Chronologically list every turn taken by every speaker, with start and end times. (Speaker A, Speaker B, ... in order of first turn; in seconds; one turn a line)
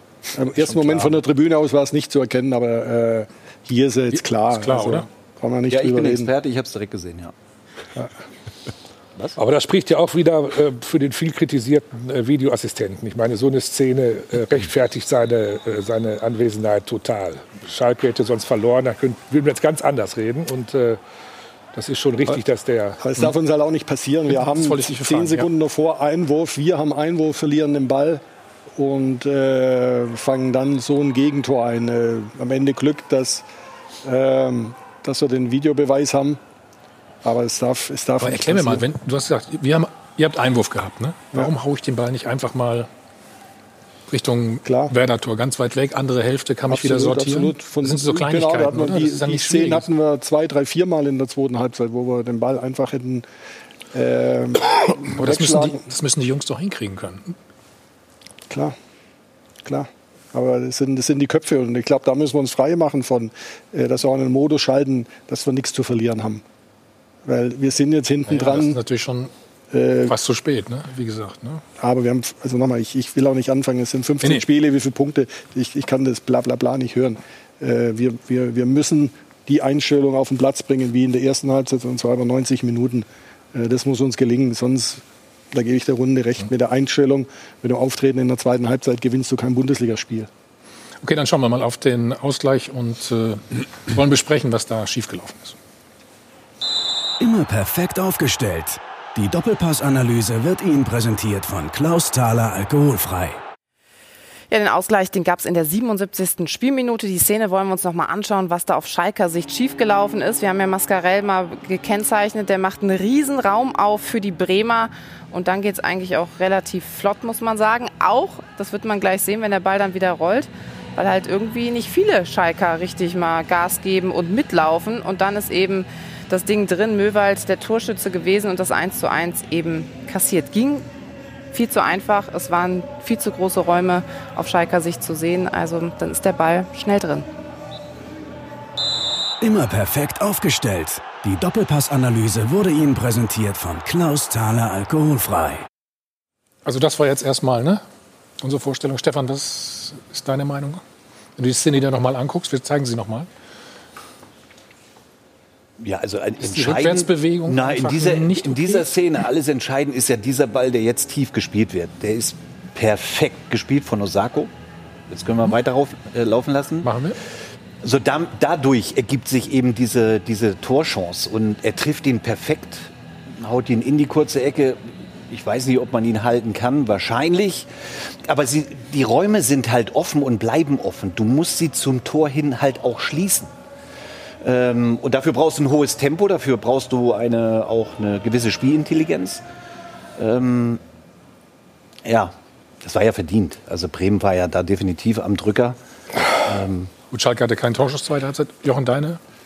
Speaker A: 0.3-6.3
Speaker B: 0.5-1.2
Speaker B: 4.1-5.0
Speaker C: 5.7-7.3
Speaker D: 9.4-21.0
Speaker D: 21.7-23.0
Speaker A: 23.0-28.2
Speaker B: 24.3-25.5
Speaker A: 28.8-33.4
Speaker A: 34.0-36.4
Speaker A: 37.2-38.8
Speaker B: 38.2-42.9
Speaker B: 44.1-49.9
Speaker A: 44.6-44.9
Speaker A: 46.7-53.2
Speaker A: 53.9-55.9
Speaker B: 54.8-57.4
Speaker A: 58.5-58.7
Speaker A: 59.6-66.4
Speaker A: 67.2-68.8
Speaker B: 68.3-69.3
Speaker A: 69.7-70.1
Speaker B: 70.1-71.6
Speaker A: 71.8-90.3
Speaker B: 91.0-95.6
Speaker E: 97.2-103.4
Speaker F: 104.5-130.8
Speaker F: 131.5-137.3
Speaker E: 139.4-145.6
Speaker B: 146.6-147.8
Speaker B: 148.4-150.8
Speaker B: 151.4-153.3
Speaker C: 155.8-164.5
Speaker B: 156.4-158.9
Speaker C: 165.1-166.9
Speaker B: 166.8-167.2
Speaker C: 167.8-177.7
Speaker C: 178.2-183.5
Speaker C: 184.4-189.4
Speaker C: 190.2-190.8
Speaker C: 192.0-195.8
Speaker C: 196.3-196.9
Speaker B: 197.1-199.2